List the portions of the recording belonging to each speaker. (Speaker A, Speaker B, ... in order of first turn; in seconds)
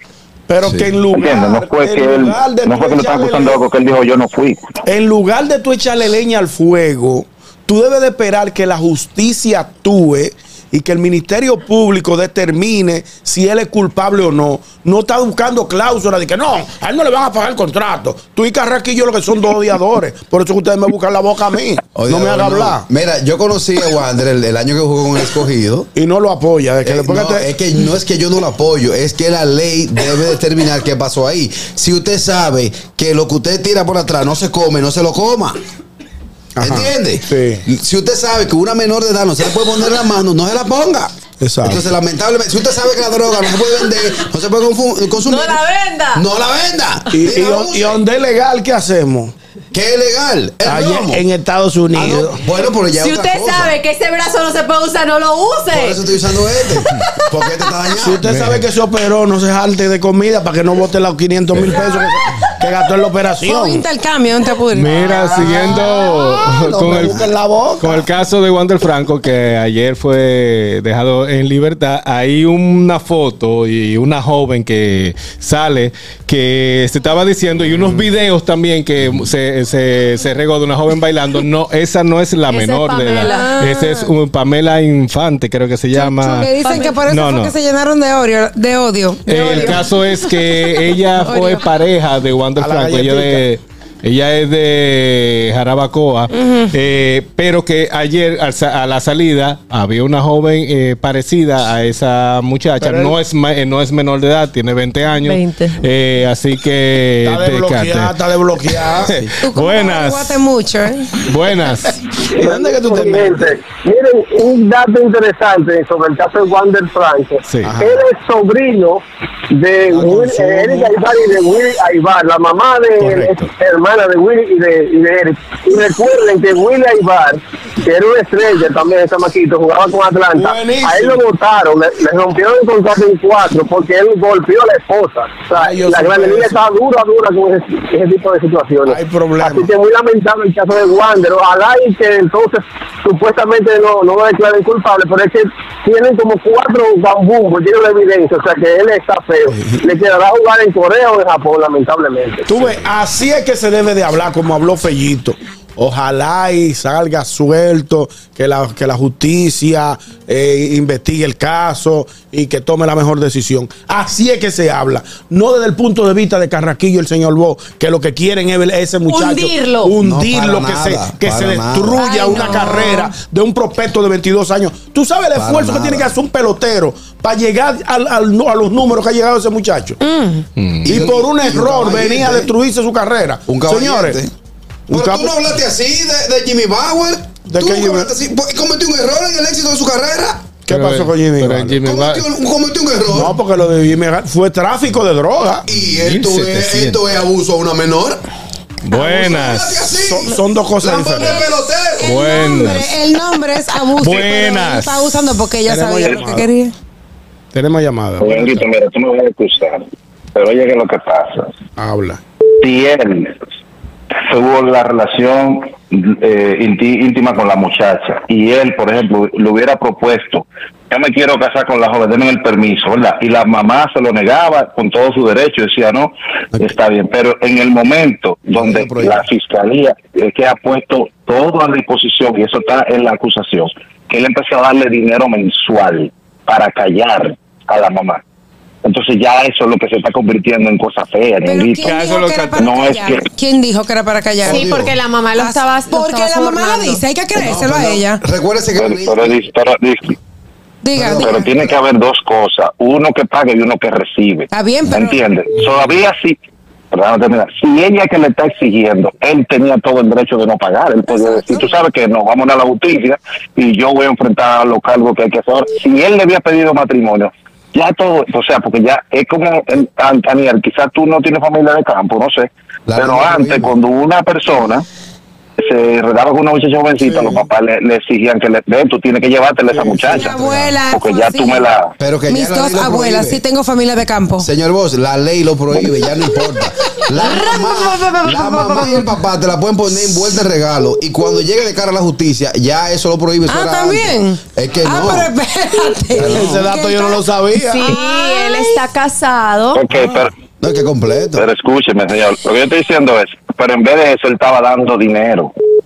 Speaker A: 0.5-3.6, 4.8-22.8, 25.9-27.5, 36.5-37.6, 41.4-41.9, 47.1-49.3, 50.6-52.4, 58.0-63.9, 64.8-68.1, 89.4-89.8, 92.6-93.4, 102.8-103.2, 107.2-109.2, 112.3-113.6, 119.9-120.9, 130.3-131.3, 135.5-136.6, 138.8-139.8, 152.4-180.0, 180.8-184.2, 184.9-185.3, 187.5-188.1, 190.7-191.8, 193.1-195.7, 200.0-201.4, 205.6-206.5, 207.5-208.6, 211.8-212.2, 296.2-297.9
Speaker B: 1.1-4.6, 206.1-206.4, 208.2-209.8, 210.3-211.5, 212.6-213.3, 214.2-238.2, 238.8-242.0, 242.6-243.2, 248.8-250.2, 251.1-256.4, 256.9-274.8, 275.6-280.3, 280.9-281.9, 299.7-300.3, 301.4-305.5
Speaker C: 21.9-25.9, 26.8-35.6, 36.6-45.6, 46.1-48.0, 49.7-51.2, 51.9-53.8, 55.7-58.3, 170.0-172.1, 175.3-176.1, 180.8-182.5, 183.5-184.3, 184.9-190.5, 191.8-193.3, 195.7-198.2, 198.9-202.2, 228.5-229.2, 244.4-244.9, 247.3-249.4, 272.9-273.8, 279.8-280.8, 282.0-283.4, 284.4-295.3, 296.1-296.8, 299.9-301.4
Speaker D: 45.2-46.2, 52.9-58.0, 82.5-83.6, 86.6-87.0, 105.2-105.8, 169.1-170.0, 172.0-173.1, 244.5-247.0, 297.7-299.8
Speaker E: 58.2-58.6, 64.7-67.3, 67.8-87.5, 89.2-110.4, 111.2-111.9, 117.5-117.7, 123.0-123.5, 180.6-181.0, 190.7-192.2, 195.7-197.0, 198.8-199.8, 202.0-203.0, 203.9-205.2, 241.8-242.7
Speaker F: 63.4-66.0, 83.3-84.1, 85.9-89.9, 90.4-91.6, 109.4-111.2, 172.3-172.6, 180.0-180.4, 201.1-206.7, 241.4-244.6, 245.3-248.2, 250.8-251.5, 254.5-255.2, 261.1-261.8, 280.1-281.6, 282.3-284.5, 286.6-289.1, 293.5-298.8
Speaker G: 112.3-152.4